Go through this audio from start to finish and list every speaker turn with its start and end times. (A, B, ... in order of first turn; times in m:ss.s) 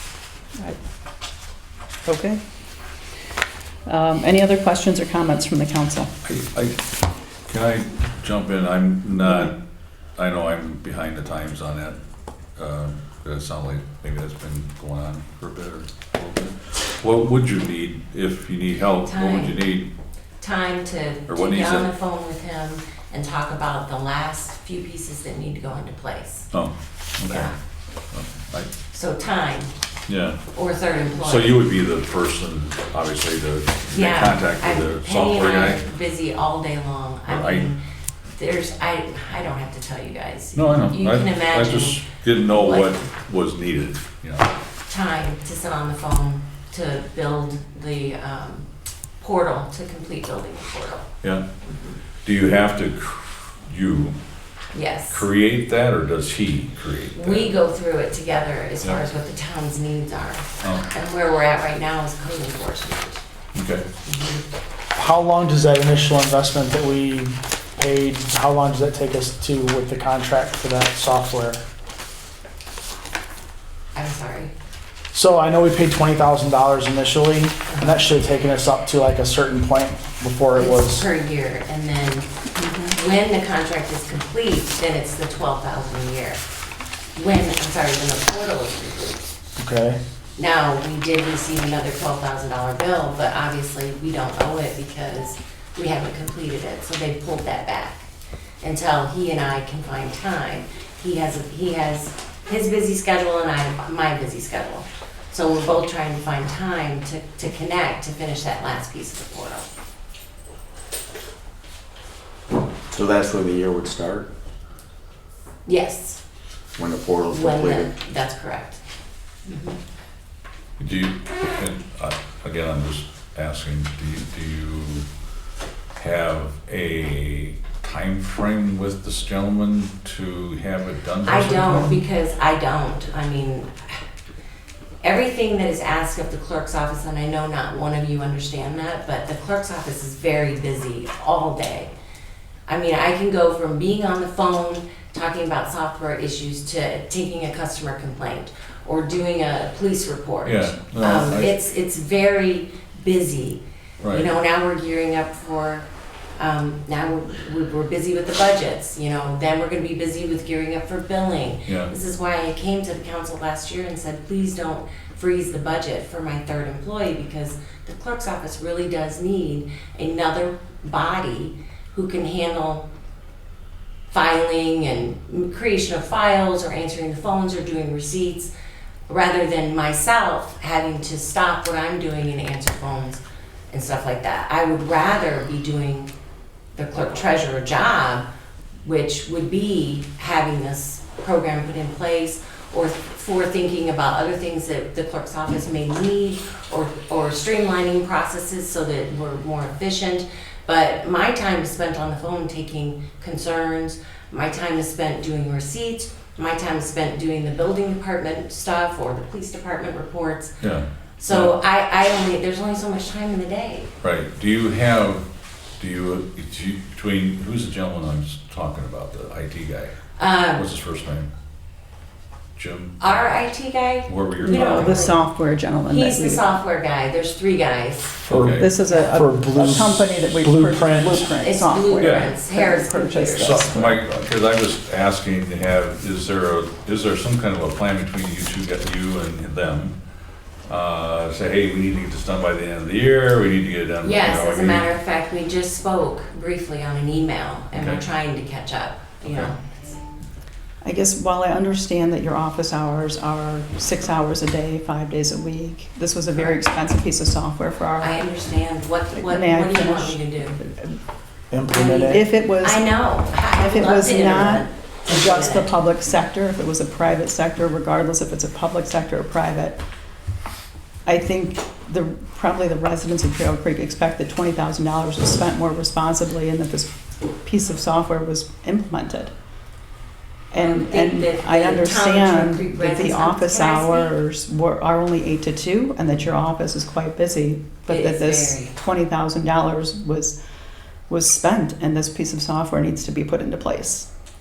0:02.0-0:02.4 A
0:03.9-0:06.1 A
0:06.2-0:06.8 B
0:07.5-0:09.6 B
0:10.2-0:12.0 B
0:12.6-0:19.9 B
0:19.0-0:19.6 C
0:20.4-0:26.5 C
0:21.3-0:21.9 B
0:26.5-0:27.5 B
0:27.2-0:27.6 C
0:28.1-0:28.7 B
0:28.9-0:29.7 C
0:30.1-0:30.4 B
0:30.5-0:31.6 C
0:31.2-0:35.8 B
0:33.9-0:37.8 C
0:37.3-0:37.7 B
0:38.3-0:43.0 C
0:40.6-0:44.5 B
0:44.9-0:48.7 C
0:49.2-0:51.1 C
0:52.2-0:54.2 B
0:54.7-0:55.3 C
0:55.1-0:57.5 B
0:57.1-1:03.2 C
1:00.6-1:00.9 B
1:03.6-1:03.9 B
1:04.1-1:04.4 C
1:05.0-1:11.6 D
1:13.9-1:14.5 C
1:15.1-1:21.0 D
1:17.7-1:18.0 C
1:20.5-1:22.3 C
1:22.6-1:22.9 A
1:22.8-1:26.4 C
1:27.2-1:29.3 C
1:29.6-1:30.0 D
1:30.4-1:38.1 C
1:38.6-1:49.7 C
1:53.0-1:54.3 E
1:55.7-1:56.2 C
1:56.8-1:57.9 E
1:57.3-1:58.8 C
1:59.4-1:59.8 C
2:00.8-2:05.0 B
2:06.0-2:12.0 B
2:11.2-2:14.0 C
2:15.0-2:21.9 C
2:22.7-2:35.9 C
2:30.4-2:31.5 B
2:34.0-2:34.3 B
2:36.4-2:52.8 C
2:41.7-2:41.9 B
2:54.1-2:58.5 C
2:59.1-3:06.1 C
3:06.7-3:08.2 C
3:08.8-3:30.5 C
3:30.6-3:31.5 B
3:31.2-3:33.9 C
3:34.0-3:35.2 B
3:35.8-3:39.9 B
3:40.2-3:40.6 C
3:40.6-3:41.3 B
3:42.6-3:43.2 B
3:43.0-3:45.2 C
3:44.0-3:45.2 B
3:44.4-3:46.4 A
3:45.9-3:48.2 C
3:48.3-3:48.6 D
3:48.3-3:48.7 B
3:48.4-3:54.1 A
3:48.8-3:49.2 C
3:49.1-3:51.3 D
3:51.4-3:53.7 C
3:52.0-3:52.4 B
3:53.4-4:00.0 B
4:00.7-4:04.9 B
4:04.0-4:10.0 C
4:07.7-4:08.0 B
4:09.2-4:09.5 B
4:10.8-4:18.2 A
4:18.0-4:20.6 C
4:19.1-4:21.0 A
4:21.5-4:22.2 D
4:21.7-4:25.7 C
4:22.0-4:22.9 A
4:23.6-4:29.8 A
4:31.0-4:36.9 A
4:37.4-4:39.3 A
4:40.5-4:50.4 A
4:40.6-4:44.1 C
4:47.9-4:48.8 C
4:51.1-4:54.1 A